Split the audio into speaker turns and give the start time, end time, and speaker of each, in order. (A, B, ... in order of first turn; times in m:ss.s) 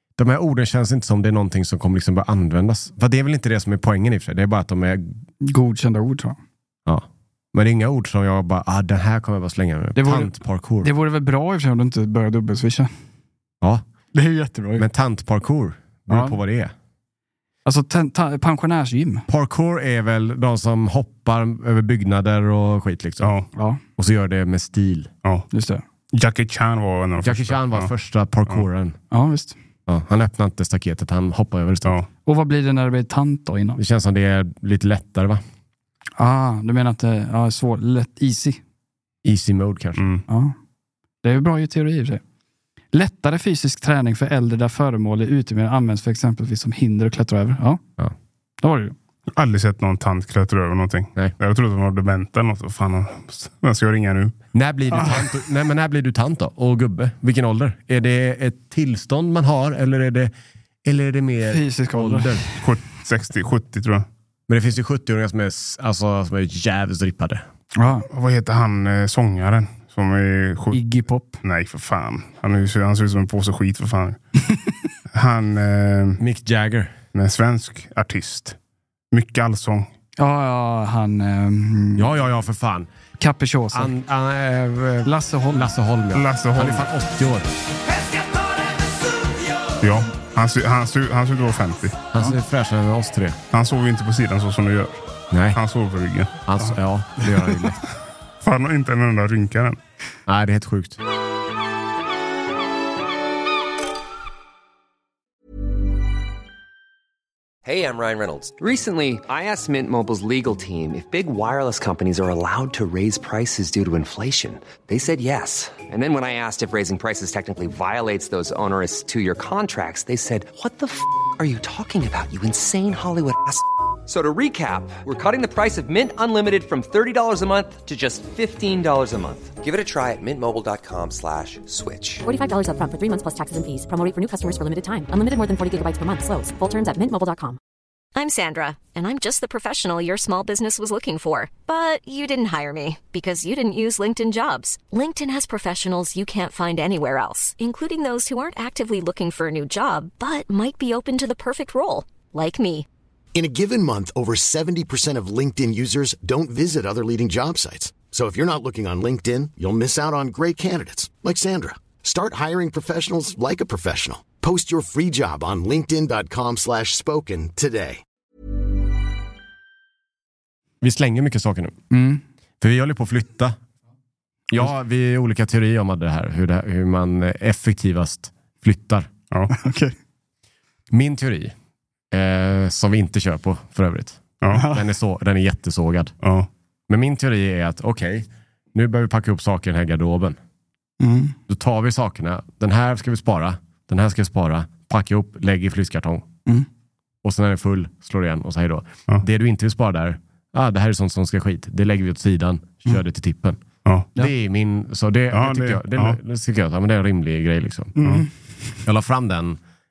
0:00.2-0:05.2 A
0:05.4-0:06.4 B
0:06.9-0:10.9 A
0:10.0-0:12.9 B
0:14.1-0:14.9 B
0:14.8-0:16.7 A
0:16.1-0:16.4 B
0:17.6-0:19.3 B
0:19.3-0:23.3 A
0:23.2-0:23.5 C
0:23.5-0:23.8 B
0:24.0-0:25.1 A
0:25.5-0:25.8 B
0:26.1-0:27.9 C
0:27.2-0:29.0 A
0:29.1-0:29.6 B
0:29.9-0:32.0 A
0:32.2-0:33.8 B
0:33.8-0:35.4 A
0:36.2-0:38.6 B
0:39.2-0:40.1 A
0:40.0-0:40.2 C
0:40.3-0:40.6 B
0:41.2-0:42.2 B
0:42.9-0:47.8 B
0:48.6-0:49.0 B
0:49.3-0:54.4 C
0:54.5-1:00.3 A
0:54.9-0:55.2 B
1:00.8-1:02.4 A
1:01.5-1:02.5 B
1:02.6-1:04.1 C
1:04.5-1:07.4 A
1:07.8-1:08.1 B
1:08.1-1:10.8 C
1:10.7-1:11.4 B
1:11.4-1:14.2 C
1:15.1-1:16.2 C
1:16.2-1:16.9 A
1:17.1-1:18.6 C
1:19.1-1:19.9 C
1:20.2-1:22.1 B
1:22.0-1:22.9 A
1:23.2-1:23.9 B
1:23.7-1:27.5 A
1:25.0-1:25.7 B
1:26.1-1:26.9 C
1:29.8-1:32.0 C
1:32.1-1:33.4 A
1:33.5-1:36.7 C
1:35.3-1:35.6 A
1:36.5-1:37.8 A
1:38.4-1:39.8 C
1:40.3-1:41.0 A
1:47.7-2:12.2 D
2:12.2-2:17.6 E
2:18.1-2:32.9 F
2:33.4-2:48.0 G
2:50.8-2:51.8 A
2:51.9-2:52.2 B
2:52.6-2:53.6 A
2:54.5-2:59.1 A
2:59.5-2:59.9 B
3:00.9-3:01.5 A
3:02.1-3:06.1 A
3:04.4-3:04.7 C
3:04.5-3:04.8 B
3:06.2-3:06.5 C
3:06.9-3:10.4 A
3:11.0-3:11.4 B
3:11.5-3:16.3 A
3:17.2-3:23.6 A
3:24.2-3:28.1 A
3:25.3-3:26.2 C
3:28.0-3:28.3 B
3:28.8-3:29.6 A